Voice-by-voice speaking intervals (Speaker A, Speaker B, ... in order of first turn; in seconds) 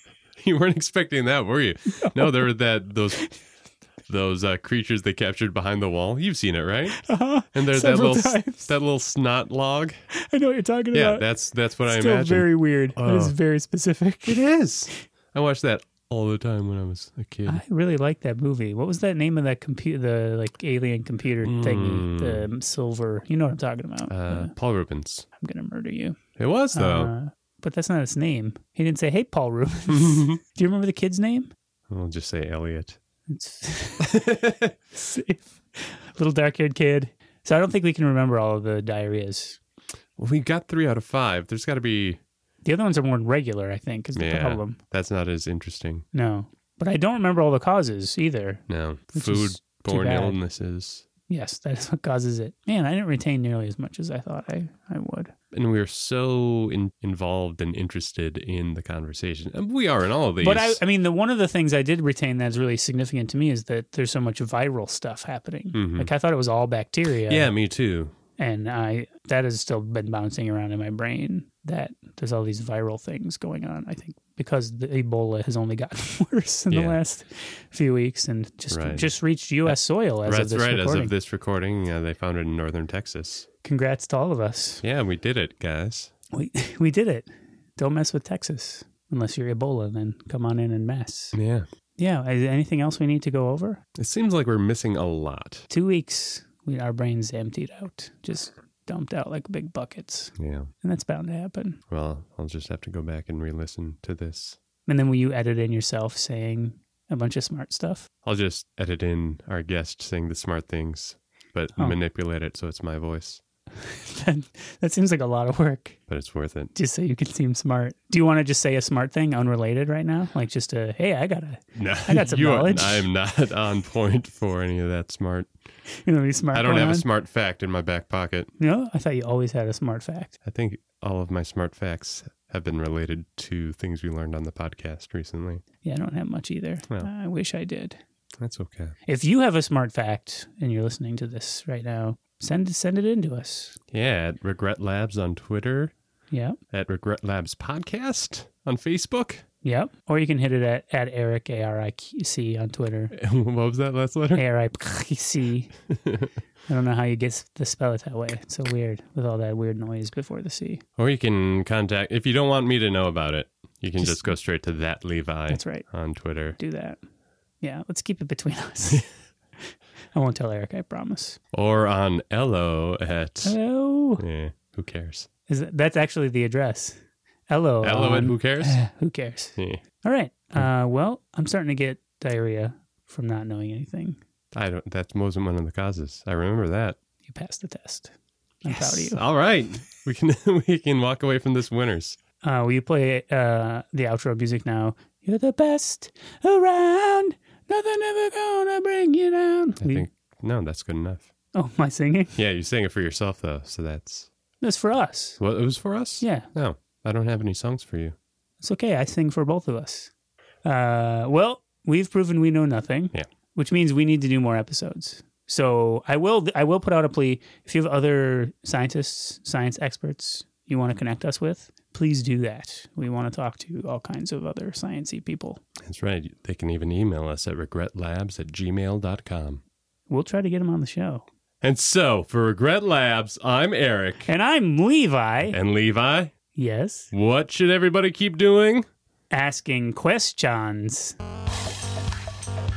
Speaker A: 0.4-3.3, 4.1-10.0, 10.9-13.4, 14.3-17.6, 21.4-22.5, 24.1-25.3, 26.4-27.1, 29.9-30.4, 31.9-33.0, 34.0-34.7, 40.2-42.2, 44.1-46.0, 48.7-51.0, 55.5-60.8, 65.7-66.1, 67.3-68.2, 76.7-77.0, 78.7-79.1, 79.7-83.5, 84.8-86.1, 91.3-91.7, 94.0-95.7, 100.4-100.7, 101.9-104.6, 108.2-113.4, 116.1-116.7, 121.8-125.5, 126.5-128.5, 130.4-135.6, 138.4-138.9, 143.9-145.9, 146.7-149.4, 153.1-154.4, 155.9-156.3, 161.0-166.6, 171.5-173.6, 174.2-175.3, 177.8-178.8, 179.6-179.8, 184.5-187.0, 188.7-192.2, 199.8-201.3, 202.3-204.3, 205.4-208.2, 225.8-229.6, 231.6-234.3, 235.5-236.3, 237.1-238.9
Speaker B: 2.0-2.5, 6.9-8.7, 10.1-11.3, 11.8-15.0, 17.5-24.5, 25.4-26.2, 26.7-31.5, 33.3-34.2, 34.9-39.6, 42.6-44.8, 46.1-50.4, 51.3-55.3, 60.4-67.5, 68.4-81.1, 83.6-84.8, 86.3-91.4, 92.0-93.8, 95.7-101.8, 104.9-108.1, 113.8-116.0, 116.8-123.1, 126.0-127.1, 128.6-130.3, 135.8-138.0, 139.1-143.8, 146.3-146.6, 149.6-153.1, 154.4-155.8, 156.7-160.8, 164.0-164.4, 165.5-167.0, 167.6-169.1, 170.1-171.4, 173.4-174.2, 175.5-177.0, 177.5-184.2, 187.3-188.1, 188.6-189.2, 192.4-200.1, 201.5-202.3, 204.6-205.4, 206.2-206.5, 208.6-210.1, 210.6-225.6, 230.1-231.2, 234.3-235.6, 236.6-237.1, 239.3-241.2